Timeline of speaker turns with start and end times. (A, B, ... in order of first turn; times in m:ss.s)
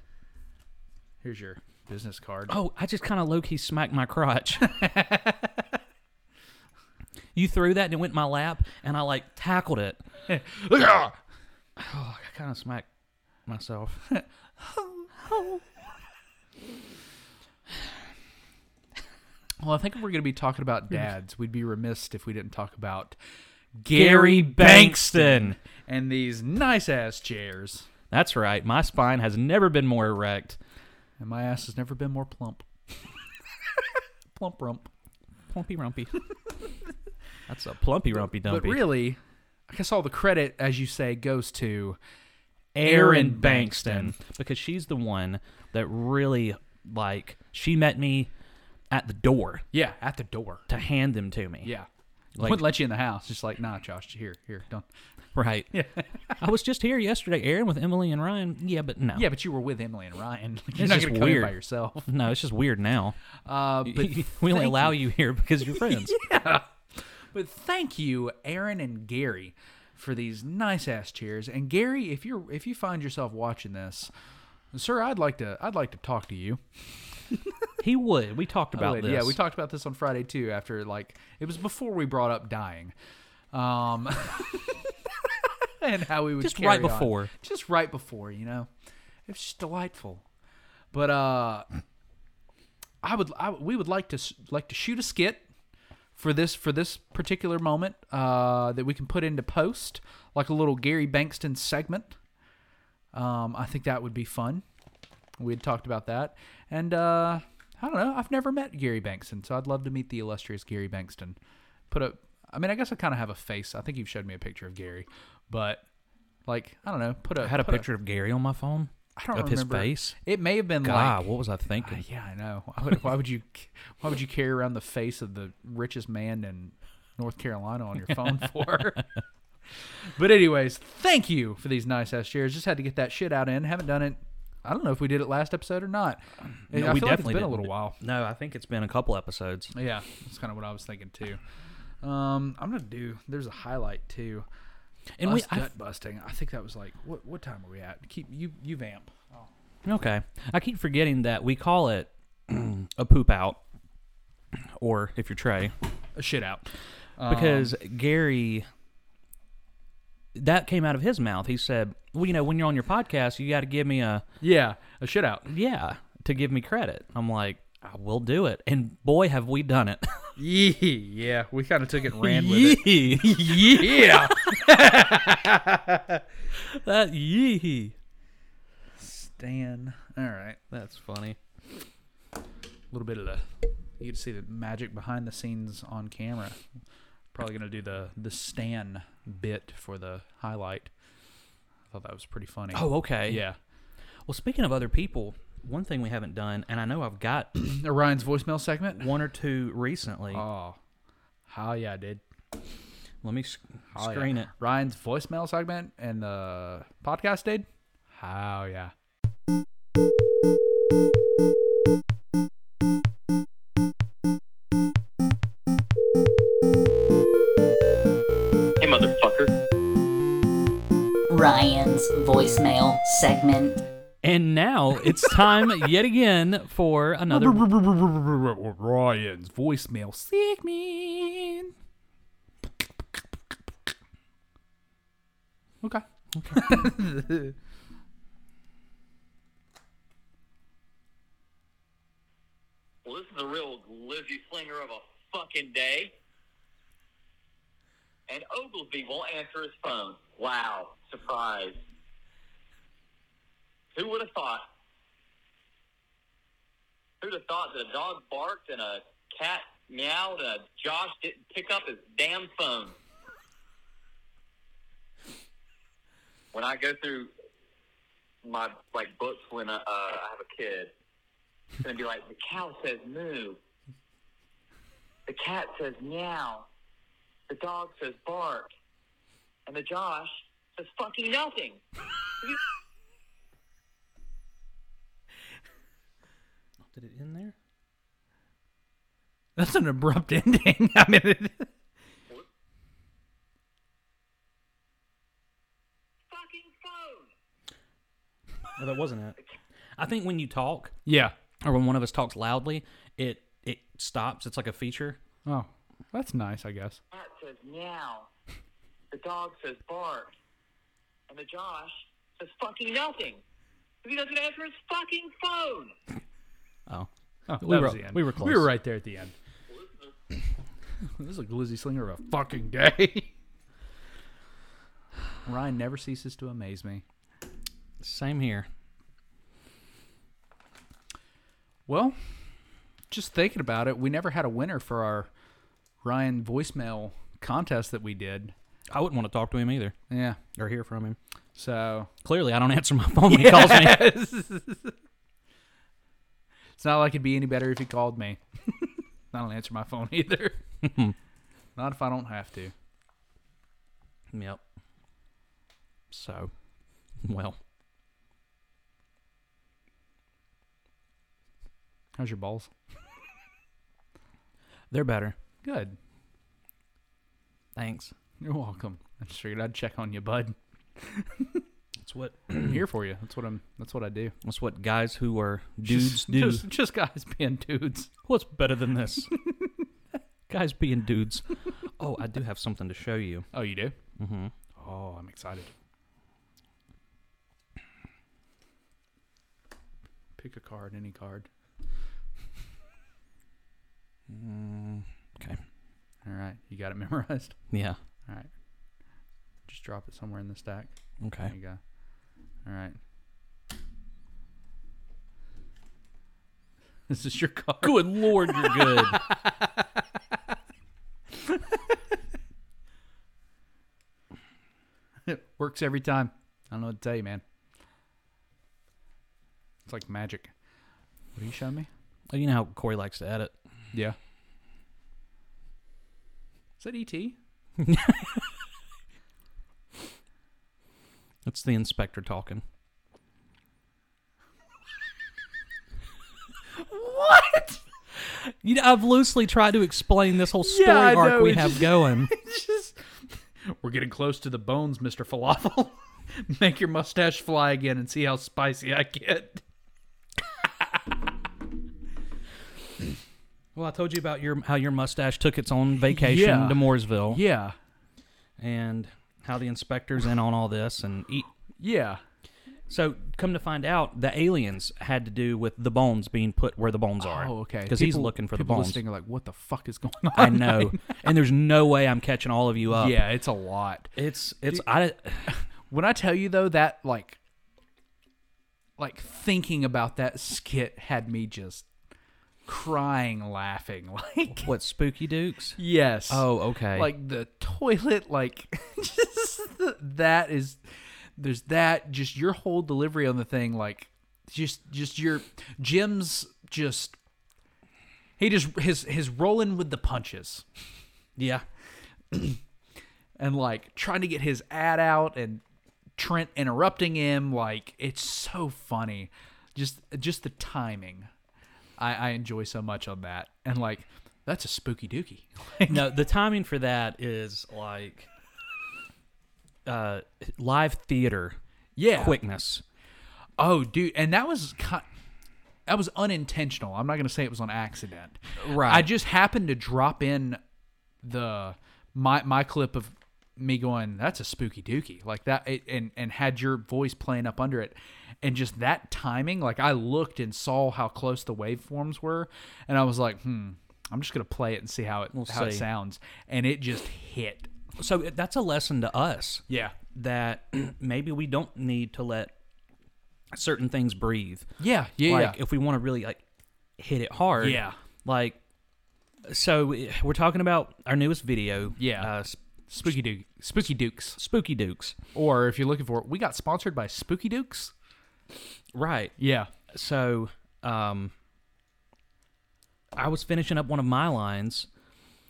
0:01.2-0:02.5 A
0:02.5-0:04.7 B
0:04.6-0:05.6 A
0:07.3-0:10.0 B
0:10.3-0:11.2 A
0:11.8-0:12.9 B
0:13.5-0:14.0 B
0:14.1-0:15.1 A
0:15.2-0:15.6 B
0:19.6-0:23.2 A
0:23.8-0:27.9 A
0:23.9-0:25.6 B
0:28.1-0:30.6 B
0:31.2-0:33.0 A
0:33.6-0:34.9 A
0:35.5-0:36.2 B
0:37.5-0:38.9 B
0:38.1-0:42.0 A
0:42.7-0:48.3 B
0:42.8-0:44.1 A
0:48.9-0:49.6 B
0:49.7-0:50.7 A
0:50.7-0:51.7 B
0:51.6-0:54.9 A
0:52.4-0:52.7 B
0:55.3-0:55.7 B
0:55.7-0:56.3 A
0:56.4-0:59.3 B
0:59.1-1:02.1 A
1:00.8-1:03.2 B
1:03.4-1:05.0 A
1:03.8-1:06.2 B
1:05.6-1:14.1 A
1:14.7-1:16.6 A
1:17.8-1:19.4 B
1:18.7-1:22.9 A
1:23.5-1:28.7 A
1:26.4-1:27.3 B
1:29.3-1:30.2 A
1:30.9-1:31.7 A
1:33.0-1:35.4 A
1:36.2-1:42.2 A
1:43.1-1:44.6 A
1:45.4-1:51.4 A
1:51.9-1:55.9 A
1:56.4-1:57.9 A
1:57.4-2:00.2 B
1:59.2-2:01.2 A
2:00.8-2:02.0 B
2:01.8-2:09.1 A
2:10.0-2:18.0 A
2:16.7-2:19.7 B
2:19.7-2:21.4 A
2:22.0-2:24.5 A
2:25.2-2:25.7 B
2:25.2-2:29.4 A
2:29.8-2:33.6 B
2:34.8-2:35.7 B
2:36.2-2:37.7 A
2:37.3-2:38.7 B
2:40.3-2:44.2 B
2:44.4-2:45.5 A
2:45.5-2:50.3 B
2:50.4-2:56.2 A
2:52.1-2:54.5 B
2:56.6-2:58.0 B
2:59.0-3:00.6 A
3:00.7-3:01.4 B
3:02.9-3:03.5 A
3:04.0-3:06.6 A
3:07.3-3:10.9 A
3:11.9-3:13.6 A
3:12.7-3:13.4 B
3:14.3-3:17.5 B
3:17.6-3:19.1 A
3:19.0-3:20.4 B
3:20.3-3:20.8 A
3:21.5-3:22.2 A
3:23.2-3:24.5 B
3:24.0-3:28.9 A
3:38.8-3:39.5 C
3:41.3-3:43.8 D
3:44.2-3:47.7 B
3:47.3-3:51.7 A
3:55.8-3:57.6 A
3:56.3-3:56.7 B
4:03.0-4:06.1 C
4:08.3-4:11.8 C
4:13.9-4:14.7 C
4:17.2-4:23.0 C
4:26.5-4:27.3 C
4:28.4-4:30.9 C
4:31.8-4:33.6 C
4:35.3-4:36.7 C
4:37.5-4:38.7 C
4:39.7-4:41.8 C
4:46.9-4:47.6 B
4:49.6-4:51.7 A
4:56.3-4:57.3 C
4:58.8-4:59.4 B
5:00.0-5:00.9 B
5:01.0-5:01.3 A
5:01.6-5:05.2 B
5:05.4-5:07.0 A
5:07.1-5:08.3 C
5:09.1-5:10.3 C
5:11.3-5:13.4 C
5:14.0-5:16.0 C
5:16.9-5:18.7 B
5:17.5-5:19.3 A
5:19.7-5:20.1 C
5:21.1-5:23.3 A
5:25.4-5:27.0 A
5:28.0-5:28.7 B
5:31.9-5:32.2 A
5:33.1-5:35.3 A
5:36.0-5:38.5 A
5:38.9-5:40.0 B
5:40.1-5:40.4 A
5:40.5-5:41.2 B
5:41.6-5:42.1 A
5:42.2-5:44.1 B
5:43.3-5:45.0 A
5:46.8-5:50.6 A
5:50.8-5:51.2 B
5:51.8-5:52.7 A
5:54.3-5:54.6 B
5:56.1-5:56.5 B
5:57.2-5:57.6 B
6:02.2-6:02.7 A
6:04.9-6:05.3 B
6:05.6-6:06.0 A
6:07.8-6:08.1 B
6:08.4-6:11.6 A
6:12.0-6:12.8 B
6:12.6-6:14.3 A
6:14.4-6:16.6 B
6:15.8-6:18.1 A
6:18.2-6:19.3 B
6:19.3-6:19.8 A
6:20.5-6:21.4 B
6:22.0-6:23.5 B
6:23.5-6:24.0 A
6:24.2-6:24.5 B
6:24.8-6:25.7 A
6:30.4-6:31.5 A
6:34.3-6:35.6 B
6:36.2-6:37.6 A
6:37.7-6:38.0 B
6:39.7-6:41.8 A
6:41.2-6:41.5 B
6:42.6-6:43.0 A
6:47.1-6:50.2 A
6:47.8-6:49.3 B
6:51.3-6:51.8 A
6:55.2-6:57.4 A
6:59.8-7:00.5 A
7:01.3-7:01.9 A
7:02.3-7:03.5 B
7:06.8-7:07.4 A
7:07.8-7:08.4 B
7:11.4-7:12.6 B
7:16.8-7:17.8 A
7:18.4-7:22.3 B
7:20.6-7:29.6 A
7:33.8-7:37.4 B
7:36.1-7:37.8 A
7:38.6-7:41.5 B
7:41.8-7:42.2 A
7:42.9-7:49.0 B
7:47.2-7:51.3 A
7:50.3-7:53.2 B
7:52.9-7:54.1 A
7:54.2-7:55.5 B
7:55.4-7:57.4 A
7:59.0-8:01.9 A
8:02.7-8:04.7 A
8:04.5-8:07.1 B
8:05.8-8:10.8 A
8:11.4-8:17.2 A
8:18.4-8:20.7 A
8:21.4-8:21.6 B
8:22.3-8:22.6 A
8:23.4-8:25.6 A
8:26.2-8:31.3 A
8:32.0-8:36.1 A
8:35.9-8:38.3 B
8:39.9-8:41.6 B
8:42.0-8:42.4 A
8:42.1-8:42.8 B
8:43.6-8:45.0 A
8:45.9-8:50.6 A
8:48.6-8:49.1 B
8:51.2-9:07.7 A
9:05.3-9:05.9 B
9:08.0-9:09.6 B
9:09.7-9:10.0 A
9:10.1-9:12.5 B
9:13.5-9:14.7 B
9:14.8-9:15.6 A
9:15.2-9:16.4 B
9:17.0-9:18.6 B
9:17.6-9:18.0 A
9:19.4-9:22.6 B
9:22.0-9:22.3 A
9:22.9-9:24.4 A
9:24.4-9:25.2 B
9:25.3-9:27.9 A
9:28.9-9:29.3 B
9:29.4-9:29.7 A
9:29.9-9:31.3 B
9:33.2-9:34.9 B